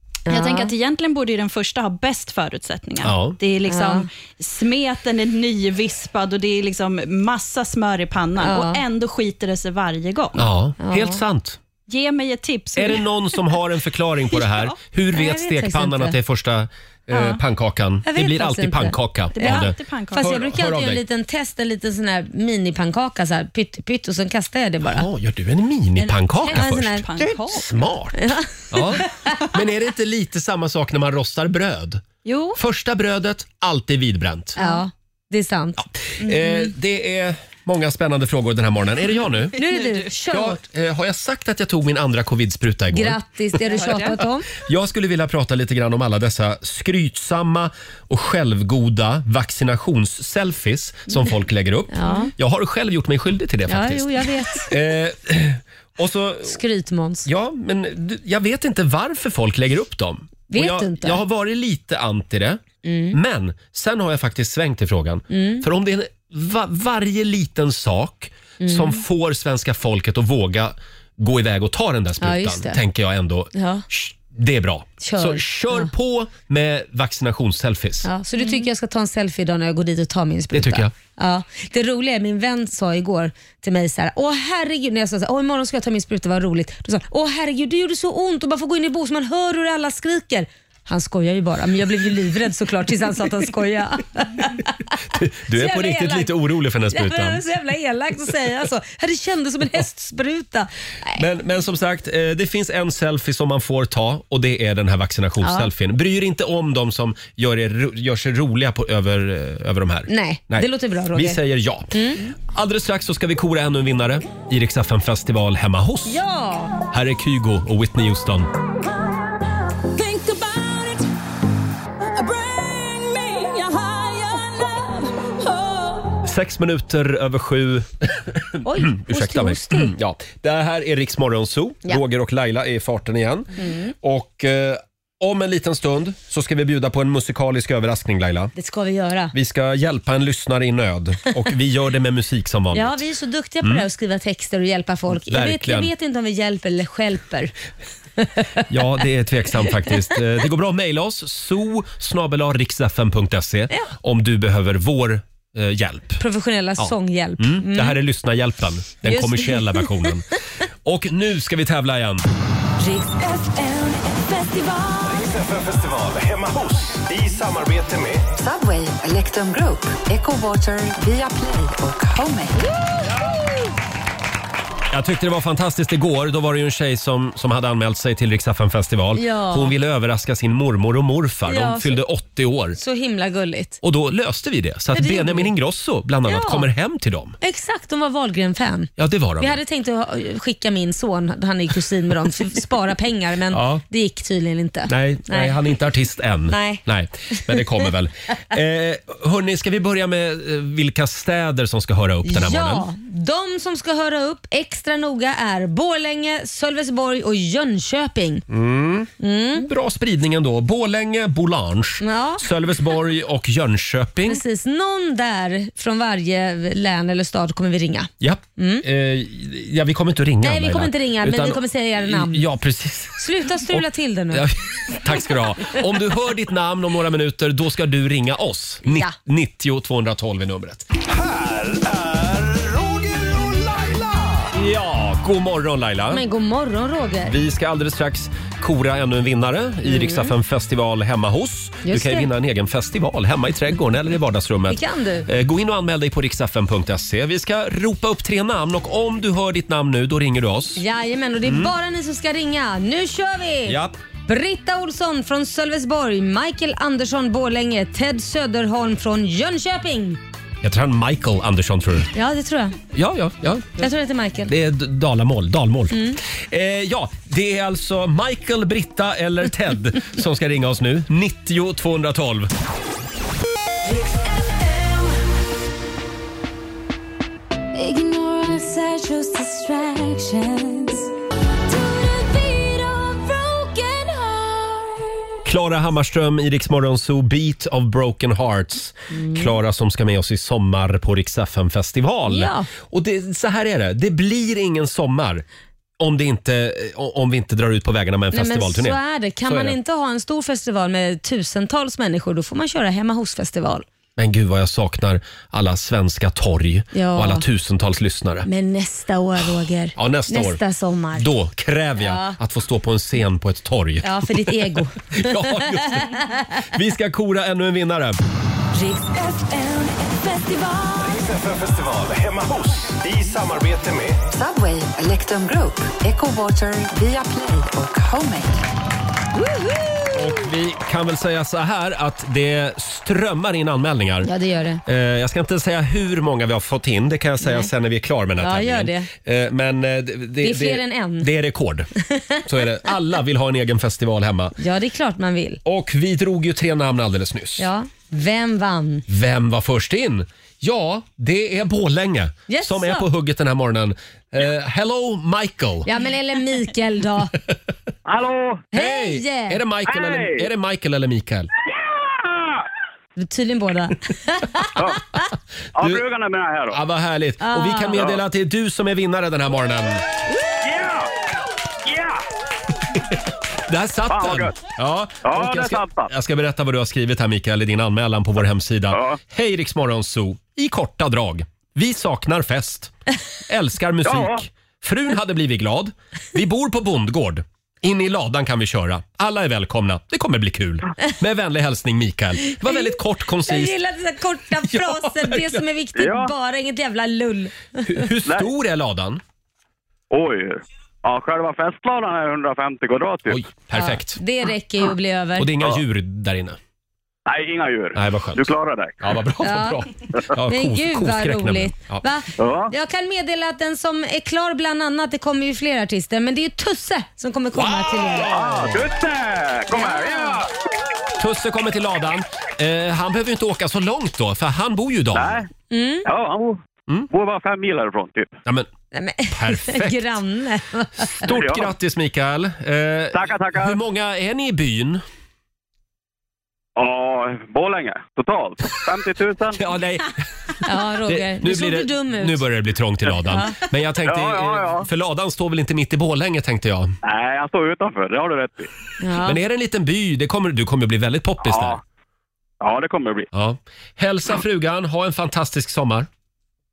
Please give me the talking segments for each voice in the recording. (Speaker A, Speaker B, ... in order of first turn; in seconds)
Speaker A: 0.3-0.7, 3.7-4.0, 8.4-8.8, 10.8-11.2, 15.1-16.2, 18.1-25.1, 26.4-27.3, 28.2-29.0, 34.5-36.7, 39.6-40.6, 42.9-44.5, 51.9-52.3, 53.7-54.7, 56.4-57.3, 60.5-61.2, 62.8-63.1, 65.3-65.6, 68.6-69.0, 72.2-72.8, 73.5-73.8, 75.0-75.9, 78.0-94.8, 95.5-96.4, 96.9-101.2, 105.4-105.7, 110.1-111.4, 111.9-112.3, 116.0-116.7, 128.6-129.9, 133.6-133.9, 138.5-139.3, 142.7-147.5, 148.2-148.6, 156.2-158.0, 159.0-159.9, 179.1-179.7, 181.5-182.0, 182.8-183.8, 184.9-185.5, 186.2-186.7, 187.4-195.5, 196.5-197.6, 202.2-208.4, 209.2-209.7, 212.0-212.4, 214.2-218.8, 220.4-222.4, 223.2-224.4, 228.8-229.2, 236.1-237.3, 239.8-240.3, 241.8-242.3, 244.7-245.3, 250.8-260.2, 262.1-262.8, 263.8-264.5, 265.9-266.2, 289.1-289.5, 292.3-292.7, 298.3-303.8, 306.9-307.4, 308.4-311.3, 312.0-312.4, 314.0-316.5, 318.8-319.1, 334.2-334.8, 337.4-337.7, 338.4-339.1, 340.4-341.3, 342.1-342.4, 344.6-345.6, 347.6-349.0, 352.5-353.1, 355.8-357.3, 358.7-359.6, 363.2-365.2, 367.4-368.1, 392.5-397.6, 403.7-405.5, 409.4-409.8, 410.5-418.4, 419.7-420.4, 425.7-426.1, 428.9-431.3, 440.6-442.4, 443.3-443.6, 449.0-449.4
Speaker B: 0.3-10.5, 11.9-13.4, 14.4-14.7, 17.1-17.4, 19.4-20.3, 26.0-27.8, 32.2-32.6, 39.6-40.0, 43.7-44.1
Speaker C: 3.0-3.4, 10.3-11.6, 12.8-21.0, 24.8-34.6, 36.0-39.5, 40.3-54.1, 54.7-56.6, 57.2-78.1, 80.5-80.9, 95.1-97.4, 101.2-116.2, 116.9-118.5, 126.2-138.5, 139.3-143.0, 145.1-145.9, 148.7-156.2, 156.8-160.3, 160.8-162.2, 174.9-182.8, 183.8-187.4, 189.0-189.6, 193.5-193.8, 194.9-202.8, 208.5-214.4, 218.2-230.9, 234.5-236.2, 237.3-250.8, 251.4-251.7, 253.7-253.9, 260.6-262.1, 262.9-263.9, 264.5-272.5, 285.4-295.4, 296.0-299.8, 304.2-308.5, 309.9-310.6, 311.1-318.2, 330.1-334.3, 334.9-341.9, 342.4-344.6, 345.6-347.7, 349.1-355.9, 358.7-361.5, 366.7-370.0, 373.7-382.9, 383.5-393.8, 394.6-395.6, 397.8-399.2, 403.3-404.2, 405.4-406.6, 407.9-412.1, 417.5-418.9, 421.2-425.4, 429.3-430.0, 431.0-435.0, 439.6-440.1, 441.1-446.9, 449.2-451.8, 453.3-456.1
Speaker D: 165.1-168.2, 231.2-234.4, 321.0-324.2
Speaker E: 168.3-172.7, 324.3-328.6
Speaker F: 278.1-280.9, 281.9-282.7
Speaker G: 358.1-358.7, 359.9-360.5, 361.6-362.7, 365.8-366.8, 370.6-371.1, 371.8-372.2, 374.1-374.6, 375.2-376.1, 378.9-379.2, 384.0-384.4, 396.0-396.3, 400.1-403.4, 407.2-409.1, 412.4-412.7, 418.2-420.5, 425.1-425.5, 426.1-428.4, 431.3-431.7, 433.1-433.8, 436.8-439.6, 444.0-444.9, 447.0-448.7, 451.4-451.8, 452.6-453.3